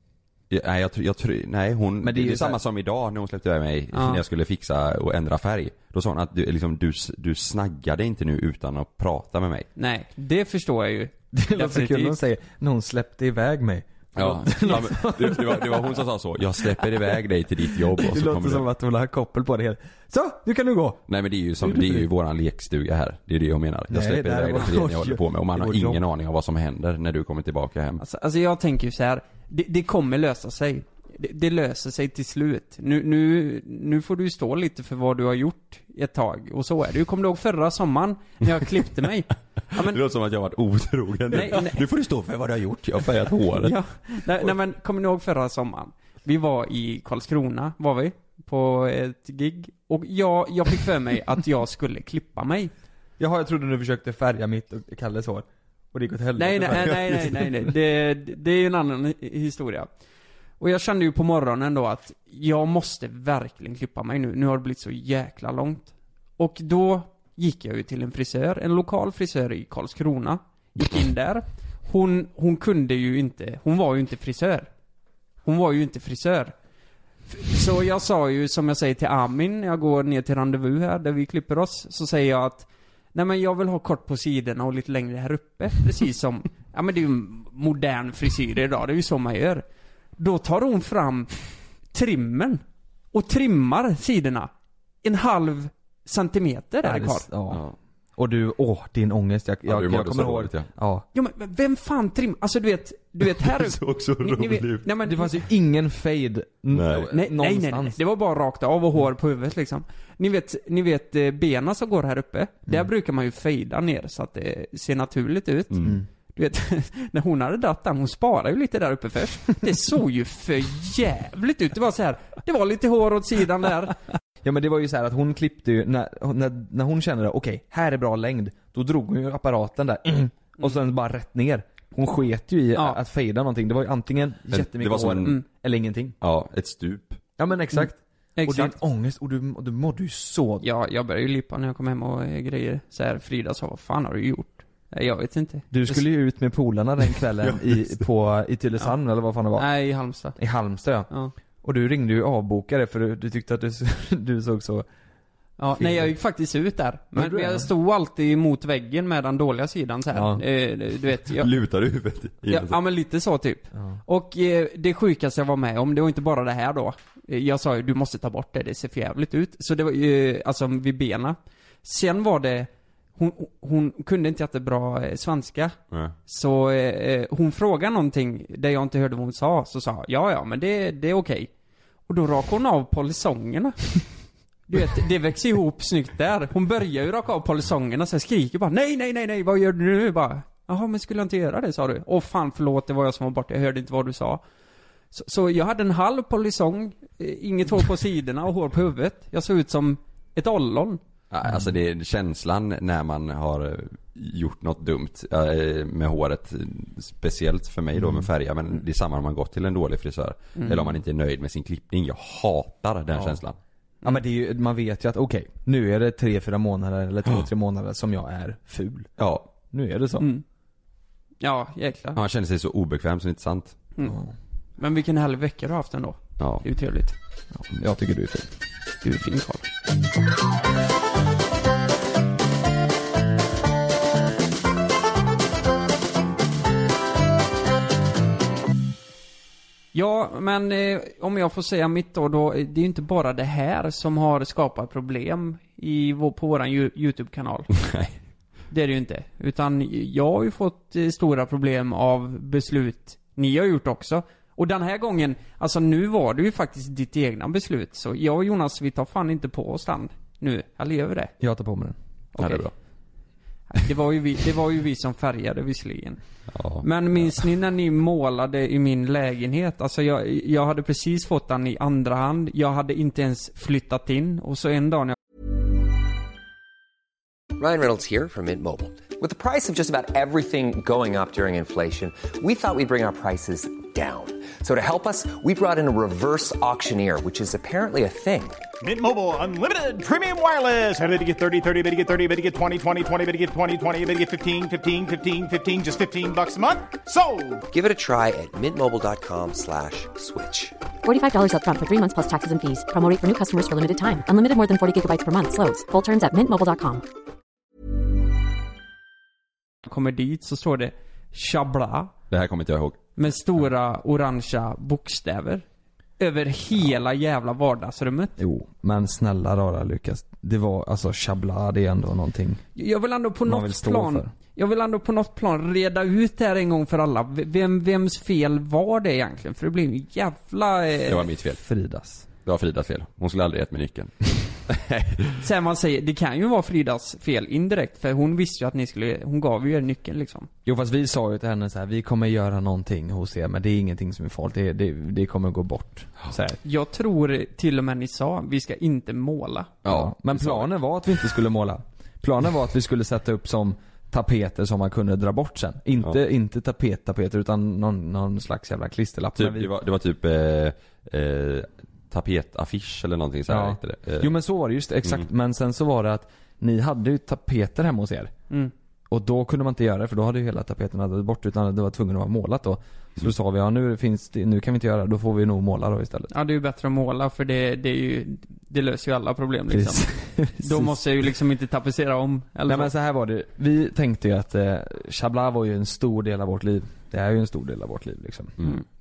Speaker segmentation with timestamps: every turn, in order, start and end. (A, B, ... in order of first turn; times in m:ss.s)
0:00.5-0:09.7 A
0:02.0-0:02.6 B
0:03.9-0:04.2 C
0:09.8-0:12.2 C
0:11.3-0:16.0 B
0:14.2-0:18.7 A
0:16.6-0:17.2 B
0:17.7-0:21.0 B
0:21.1-0:28.0 A
0:21.6-0:22.0 B
0:23.9-0:26.0 B
0:28.0-0:40.0 C
0:39.7-0:43.8 A
0:41.3-0:41.8 C
0:43.6-0:52.7 C
0:53.2-0:57.5 B
0:56.4-0:59.9 C
1:00.6-1:14.7 C
1:15.4-1:16.5 C
1:17.3-1:29.6 C
1:30.2-1:31.3 C
1:31.9-1:34.5 C
1:35.0-1:37.3 C
1:36.8-1:37.6 B
1:38.2-1:41.0 B
1:39.6-1:40.7 A
1:41.1-1:45.4 C
1:43.3-1:44.9 A
1:45.0-1:48.0 B
1:46.7-1:47.1 A
1:47.1-2:04.0 C
1:55.7-1:56.0 A
2:04.4-2:16.2 B
2:14.5-2:15.4 A
2:16.2-2:17.2 A
2:17.4-2:20.6 B
2:17.7-2:18.7 C
2:20.6-2:26.0 C
2:25.7-2:29.7 B
2:29.6-2:30.4 C
2:30.3-2:31.1 B
2:31.6-2:34.8 B
2:35.6-2:41.5 C
2:35.8-2:36.1 B
2:37.1-2:37.7 B
2:40.1-2:40.4 B
2:41.3-2:42.8 A
2:42.5-3:01.5 C
3:02.1-3:04.1 C
3:04.7-3:14.4 C
3:15.1-3:21.0 C
3:21.3-3:33.6 A
3:27.9-3:28.3 B
3:34.0-3:40.3 B
3:39.2-3:39.5 A
3:41.4-3:42.2 C
3:42.2-3:43.8 A
3:44.0-3:44.3 B
3:44.8-3:47.1 C
3:46.4-3:46.6 A
3:47.6-3:48.5 B
3:49.0-3:49.7 C
3:59.9-4:07.8 C
4:07.8-4:08.1 A
4:08.7-4:21.3 C
4:21.4-4:22.0 B
4:22.3-4:22.6 C
4:22.4-4:22.7 A
4:23.7-4:26.2 C
4:26.5-4:27.3 A
4:26.8-4:35.2 C
4:37.6-4:48.6 D
4:48.8-4:57.6 E
4:57.7-5:00.8 D
5:01.0-5:07.0 F
5:09.8-5:12.1 C
5:12.3-5:13.1 A
5:13.2-5:15.6 C
5:16.2-5:18.3 C
5:18.4-5:22.6 B
5:22.8-5:31.2 C
5:23.4-5:24.3 B
5:31.1-5:31.6 A
5:31.5-5:32.2 B
5:32.4-5:35.4 A
5:35.4-5:40.5 C
5:40.6-5:46.6 B
5:46.6-5:49.7 C
5:49.8-5:50.7 A
5:49.8-5:59.7 B
5:59.4-6:04.3 A
6:03.5-6:08.3 B
6:09.1-6:16.3 B
6:16.3-6:22.9 C
6:19.7-6:21.0 B
6:22.6-6:28.6 B